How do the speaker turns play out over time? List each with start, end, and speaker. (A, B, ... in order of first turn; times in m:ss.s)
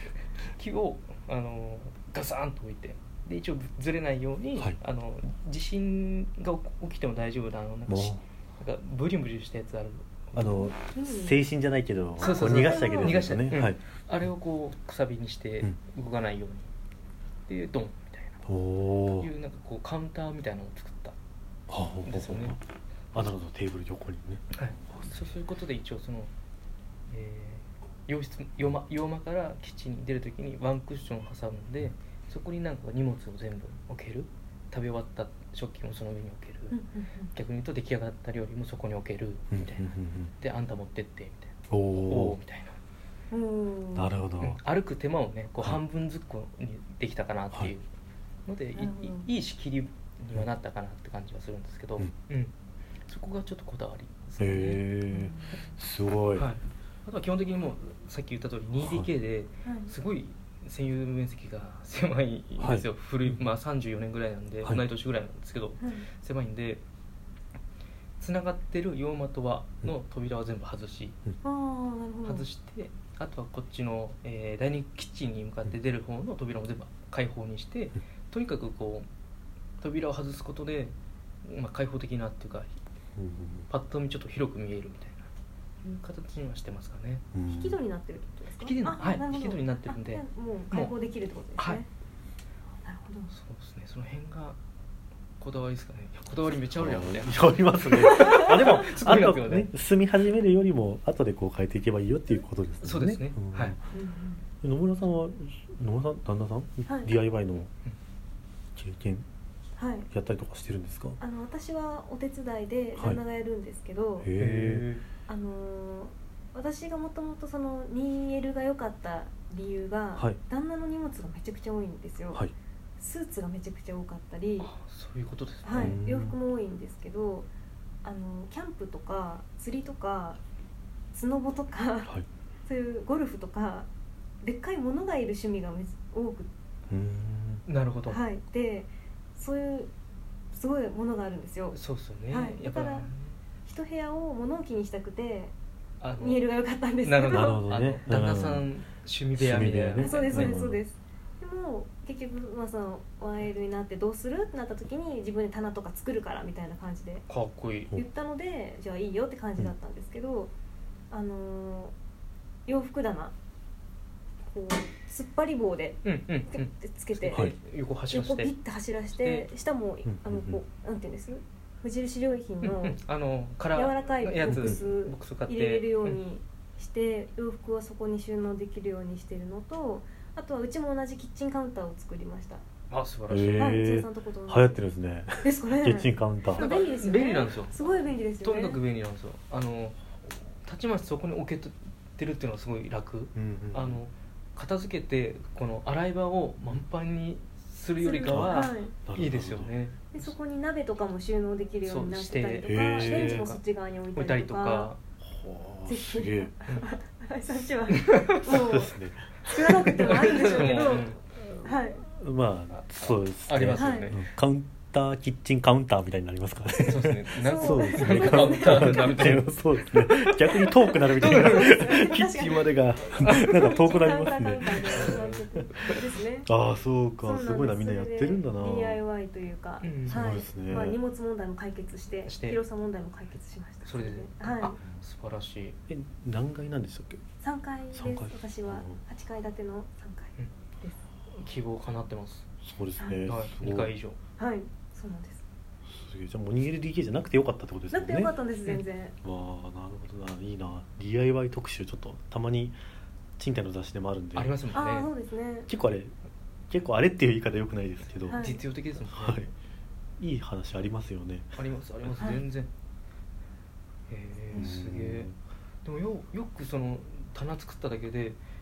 0:00.6-0:10.7 A
0:07.9-0:08.2 B
0:10.3-0:13.8 B
0:10.7-0:11.4 C
0:12.2-0:16.7 A
0:12.2-0:13.2 C
0:17.5-0:18.4 A
0:18.5-0:19.3 B
0:19.2-0:21.2 A
0:21.7-0:22.6 B
0:22.1-0:22.6 A
0:23.1-0:25.2 B
0:24.5-0:26.3 A
0:27.1-0:36.8 A
0:36.7-0:37.3 C
0:37.3-0:42.8 A
0:39.5-0:40.3 B
0:41.7-0:42.4 B
0:43.3-0:44.1 C
0:44.0-0:44.6 B
0:44.4-0:47.9 A
0:48.5-0:52.5 A
0:48.8-0:49.3 C
0:53.1-0:54.8 A
0:54.4-0:56.5 B
0:55.1-0:55.7 C
0:56.4-1:06.8 A
0:58.8-0:59.1 B
0:59.6-1:00.0 C
1:02.6-1:02.9 B
1:05.8-1:06.1 C
1:08.2-1:11.2 A
1:11.4-1:12.5 C
1:12.2-1:19.1 A
1:19.8-1:20.9 A
1:21.4-1:22.7 A
1:23.2-1:23.7 B
1:23.7-1:25.3 A
1:25.8-1:27.2 A
1:27.3-1:27.8 B
1:27.5-1:31.9 C
1:28.6-1:30.9 A
1:31.6-1:31.8 A
1:32.8-1:33.3 C
1:33.3-1:34.6 A
1:35.4-1:39.7 A
1:36.8-1:43.8 B
1:38.1-1:38.5 C
1:42.8-1:43.8 A
1:43.9-1:44.4 C
1:44.6-1:47.7 B
1:46.9-1:47.1 C
1:48.8-1:49.2 B
1:49.8-1:50.1 C
1:50.1-1:51.2 B
1:51.2-1:54.3 C
1:54.2-1:54.9 B
1:54.4-1:55.0 A
1:55.3-2:02.4 C
2:03.0-2:04.7 C
2:04.6-2:06.0 A
2:05.6-2:07.5 C
2:05.8-2:06.4 B
2:08.0-2:10.4 C
2:11.1-2:13.9 C
2:14.4-2:16.5 C
2:16.9-2:17.6 B
2:17.7-2:18.2 A
2:18.1-2:19.9 C
2:20.5-2:21.8 C
2:21.7-2:23.4 A
2:22.3-2:23.1 C
2:23.6-2:25.5 C
2:26.0-2:26.5 A
2:26.2-2:27.6 C
2:27.0-2:30.6 A
2:27.3-2:28.7 B
2:29.4-2:30.8 B
2:30.0-2:37.2 C
2:37.3-2:38.0 A
2:37.9-2:40.5 C
2:41.1-2:41.9 C
2:42.7-2:43.3 C
2:44.5-2:47.6 C
2:46.0-2:48.5 A
2:48.1-2:53.0 C
2:49.1-2:49.5 A
2:50.0-2:50.6 B
2:52.6-2:56.2 A
2:53.7-3:02.6 C
2:54.5-2:54.8 B
3:02.9-3:03.8 A
3:03.3-3:06.6 B
3:03.6-3:04.8 C
3:05.4-3:08.8 C
3:06.5-3:10.0 A
3:10.6-3:20.3 A
3:13.4-3:14.0 B
3:18.0-3:19.0 C
3:18.3-3:19.7 B
3:20.1-3:24.9 C
3:21.8-3:23.6 A
3:22.7-3:23.5 B
3:24.2-3:25.0 A
3:25.2-3:26.5 B
3:25.9-3:32.0 C
3:27.9-3:28.6 A
3:28.5-3:30.6 B
3:30.0-3:31.2 A
3:32.0-3:45.2 B
3:33.0-3:34.3 A
3:33.8-3:34.1 C
3:36.8-3:39.5 A
3:37.4-3:39.2 C
3:40.3-3:46.5 C
3:41.1-3:41.8 A
3:44.7-3:46.0 A
3:46.5-3:49.0 B
3:47.2-3:54.8 C
3:49.8-3:50.4 A
3:50.1-3:51.0 B
3:52.3-3:52.6 A
3:53.8-3:55.8 A
3:55.9-3:57.2 B
3:57.4-4:01.0 C
3:57.9-3:59.0 B
4:01.4-4:02.5 A
4:02.6-4:03.9 B
4:03.0-4:03.2 C
4:03.3-4:04.2 A
4:04.4-4:05.4 C
4:05.9-4:08.4 B
4:07.9-4:09.2 C
4:09.2-4:12.8 B
4:13.4-4:14.6 B
4:14.4-4:15.1 A
4:14.7-4:15.7 C
4:15.7-4:16.1 B
4:16.7-4:18.5 B
4:18.3-4:18.6 C
4:18.3-4:19.5 A
4:19.0-4:19.5 B
4:20.2-4:21.5 B
4:21.6-4:22.7 A
4:24.1-4:25.3 A
4:24.5-4:25.3 B
4:25.8-4:28.4 A